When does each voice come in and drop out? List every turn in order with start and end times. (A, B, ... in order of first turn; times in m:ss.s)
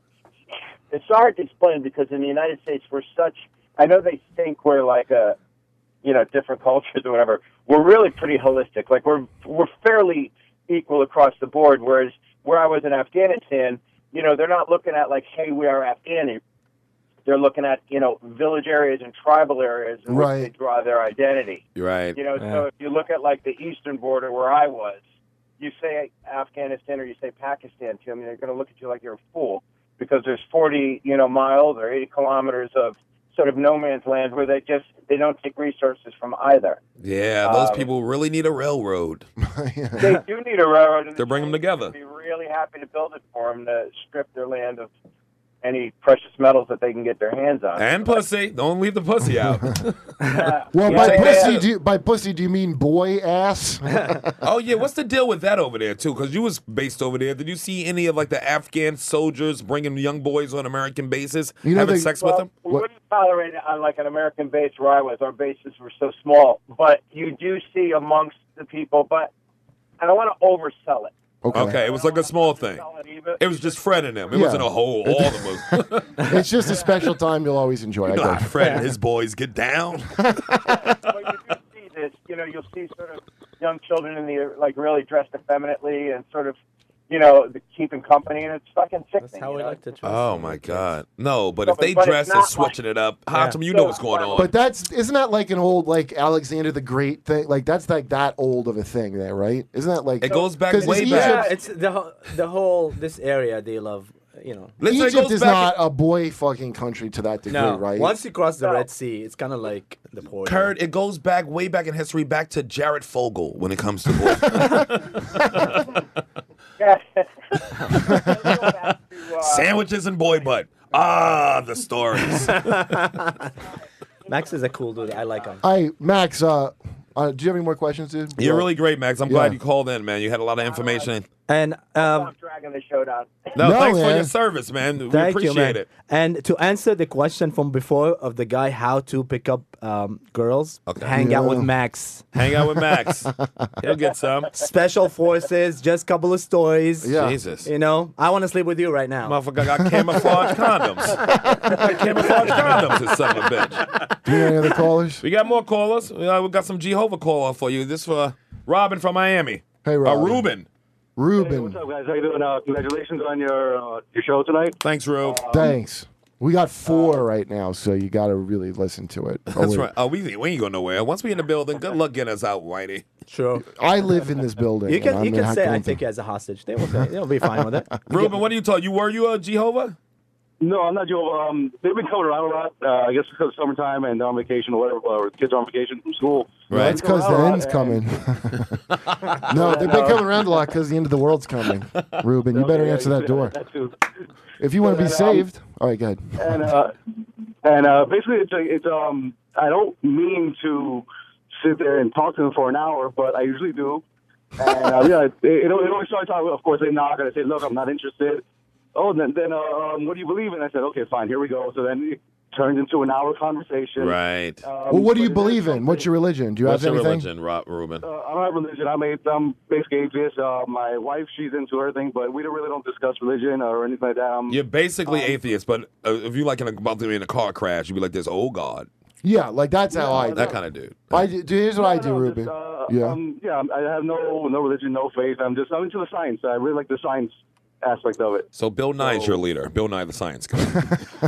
0:00.9-0:05.4 A
0:06.0-0:16.4 A
0:17.2-0:25.0 A
0:20.1-0:20.5 B
0:21.8-0:22.2 C
0:25.6-0:36.8 A
0:37.0-0:39.3 C
0:37.4-0:37.9 A
0:39.4-0:40.2 B
0:40.0-0:44.9 A
0:41.2-0:41.9 C
0:45.6-0:48.2 A
0:47.8-0:50.0 C
0:50.3-0:51.6 A
0:50.7-0:54.3 B
0:50.9-0:51.6 C
0:54.4-1:02.5 C
1:01.6-1:02.8 B
1:02.2-1:09.3 A
1:10.0-1:13.8 A
1:11.4-1:11.8 B
1:11.5-1:12.8 C
1:13.4-1:16.2 C
1:14.3-1:18.7 B
1:18.1-1:20.8 C
1:20.7-1:26.6 A
1:27.1-1:29.8 A
1:29.2-1:30.9 D
1:30.0-1:34.5 C
1:31.6-1:32.8 A
1:33.3-1:33.6 D
1:33.7-1:34.5 A
1:34.4-1:41.5 B
1:40.2-1:41.6 A
1:40.2-1:41.4 C
1:41.0-1:44.8 D
1:44.8-1:45.8 C
1:44.8-1:48.1 B
1:47.5-1:50.7 D
1:48.6-1:48.9 A
1:50.4-1:55.9 C
1:56.8-1:59.7 A
1:57.9-2:02.9 C
2:02.3-2:03.5 D
2:04.3-2:05.6 D
2:05.6-2:08.7 B
2:08.4-2:11.3 C
2:09.2-2:09.6 B
2:10.6-2:11.1 A
2:11.5-2:12.3 D
2:12.0-2:13.5 A
2:13.5-2:15.9 C
2:13.6-2:14.3 B
2:15.1-2:22.2 D
2:20.9-2:21.2 C
2:21.1-2:21.7 B
2:22.3-2:23.3 C
2:23.8-2:24.6 C
2:24.5-2:29.4 D
2:27.0-2:27.4 B
2:27.1-2:27.7 C
2:29.2-2:34.0 C
2:29.8-2:30.6 B
2:31.3-2:31.9 B
2:34.2-2:35.2 B
2:35.2-2:40.7 C
2:39.8-2:40.5 B
2:41.2-2:41.8 B
2:41.3-2:45.7 E
2:44.8-2:45.4 C
2:45.5-2:49.9 B
2:46.9-2:47.1 E
2:49.5-2:53.1 C
2:53.3-2:53.7 D
2:53.7-2:56.0 B
2:54.8-2:58.3 D
2:58.1-3:00.0 C
3:00.6-3:08.0 E
3:06.7-3:07.0 C
3:06.7-3:08.8 B
3:08.9-3:09.5 C
3:09.4-3:13.6 B
3:09.5-3:10.3 E
3:12.5-3:14.0 E
3:14.6-3:16.8 B
3:14.8-3:15.5 E
3:16.4-3:16.9 E
3:17.6-3:21.0 E
3:21.6-3:24.0 E
3:24.6-3:28.4 E
3:28.9-3:36.1 E
3:34.0-3:34.6 C
3:34.9-3:37.3 B
3:36.6-3:38.0 C
3:38.0-3:45.4 E
3:44.5-3:48.9 C
3:49.2-3:50.6 B
3:49.9-3:50.6 E
3:50.1-3:51.3 C
3:51.1-3:53.2 B
3:51.7-3:59.4 E
3:58.5-4:01.0 C